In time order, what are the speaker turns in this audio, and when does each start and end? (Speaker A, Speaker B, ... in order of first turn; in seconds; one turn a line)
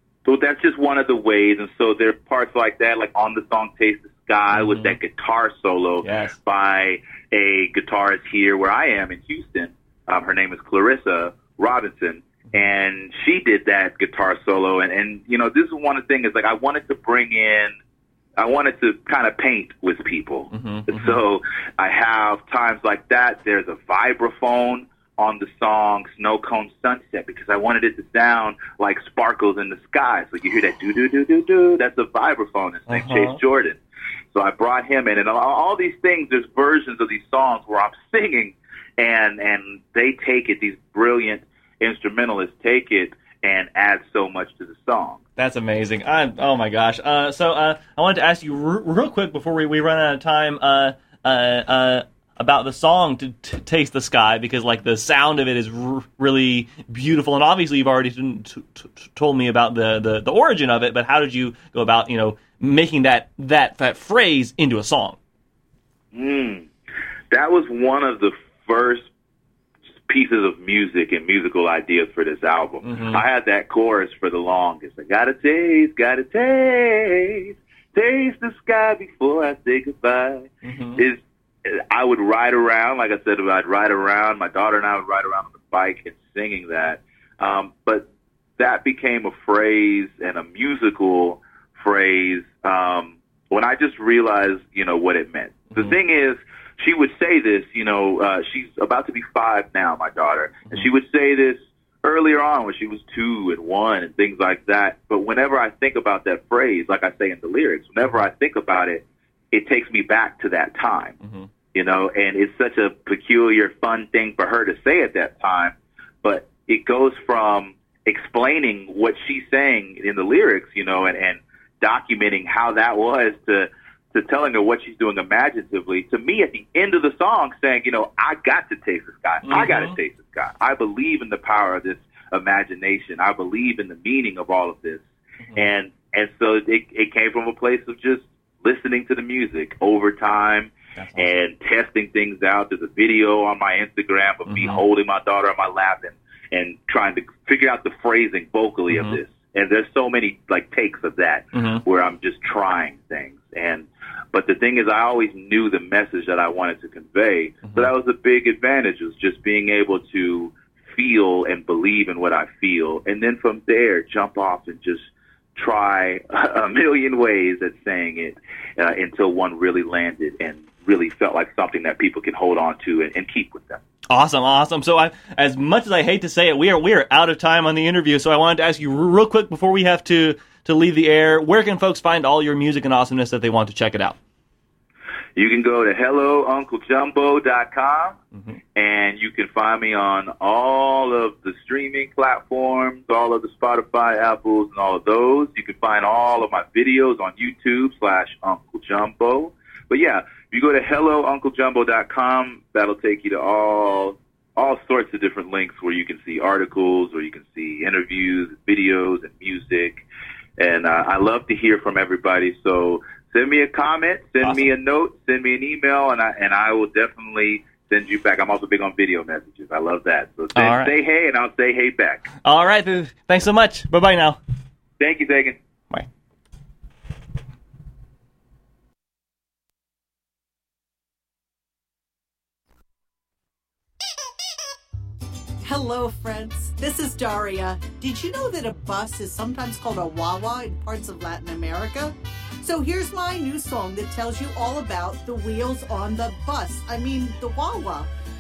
Speaker A: 0.2-17.7
Speaker B: 4.5-5.0
Speaker B: 6.0-6.4
Speaker A: 18.4-33.8
Speaker B: 20.5-21.2
Speaker B: 32.9-33.4
Speaker A: 34.3-45.2
Speaker B: 45.4-65.2
Speaker A: 66.1-66.7
Speaker A: 67.3-69.1
Speaker A: 70.0-88.0
Speaker B: 72.8-73.2
Speaker B: 80.6-81.0
Speaker A: 88.6-111.1
Speaker B: 111.2-111.5
Speaker A: 111.7-135.0
Speaker B: 129.4-130.0
Speaker A: 135.6-165.0
Speaker B: 141.0-141.3
Speaker B: 144.5-144.8
Speaker B: 148.9-149.2
Speaker B: 151.5-151.8
Speaker B: 157.6-157.9
Speaker A: 165.6-173.8
Speaker B: 174.1-184.2
Speaker A: 185.3-188.2
Speaker A: 188.8-210.0
Speaker A: 210.6-222.2
Speaker B: 214.4-214.7
Speaker B: 220.5-220.9
Speaker B: 222.4-224.4
Speaker A: 225.0-225.6
Speaker C: 235.6-248.1